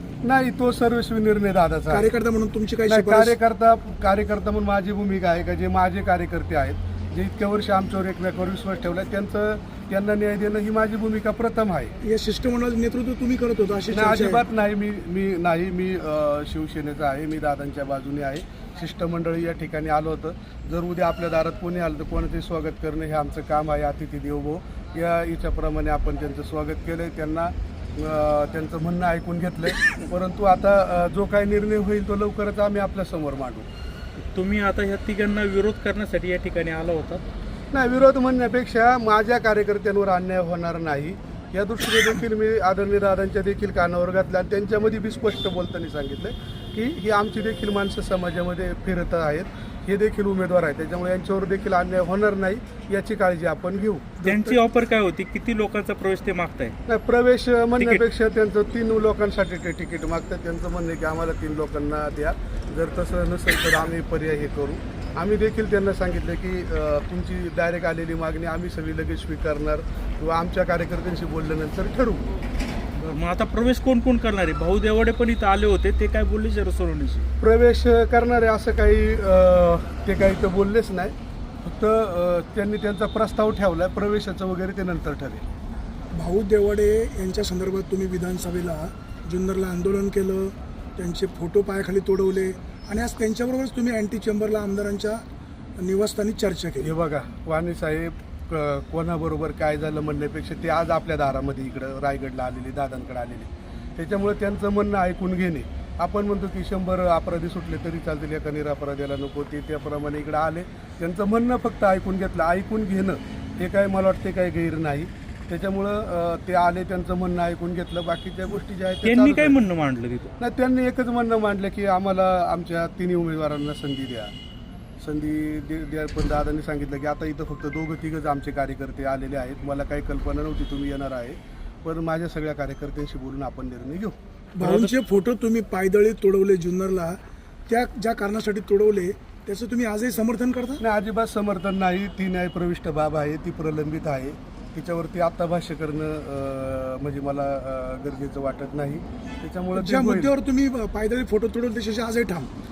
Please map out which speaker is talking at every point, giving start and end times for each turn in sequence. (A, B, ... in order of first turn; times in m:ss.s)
0:00.2-0:02.1 A
0:01.9-0:03.4 B
0:02.9-0:11.9 A
0:12.0-0:14.4 B
0:13.9-0:33.7 A
0:34.3-0:37.2 C
0:37.7-0:54.2 A
0:54.2-0:54.6 B
0:54.2-0:56.8 C
0:56.9-1:12.2 A
1:13.0-1:17.3 C
1:17.4-1:25.4 A
1:26.1-1:35.2 B
1:35.8-1:36.9 B
1:36.8-1:59.6 A
1:59.0-2:00.4 C
2:00.4-2:04.3 A
2:05.0-2:14.2 A
2:14.6-2:20.8 B
2:14.6-2:14.9 C
2:20.8-2:30.3 A
2:29.8-2:32.5 B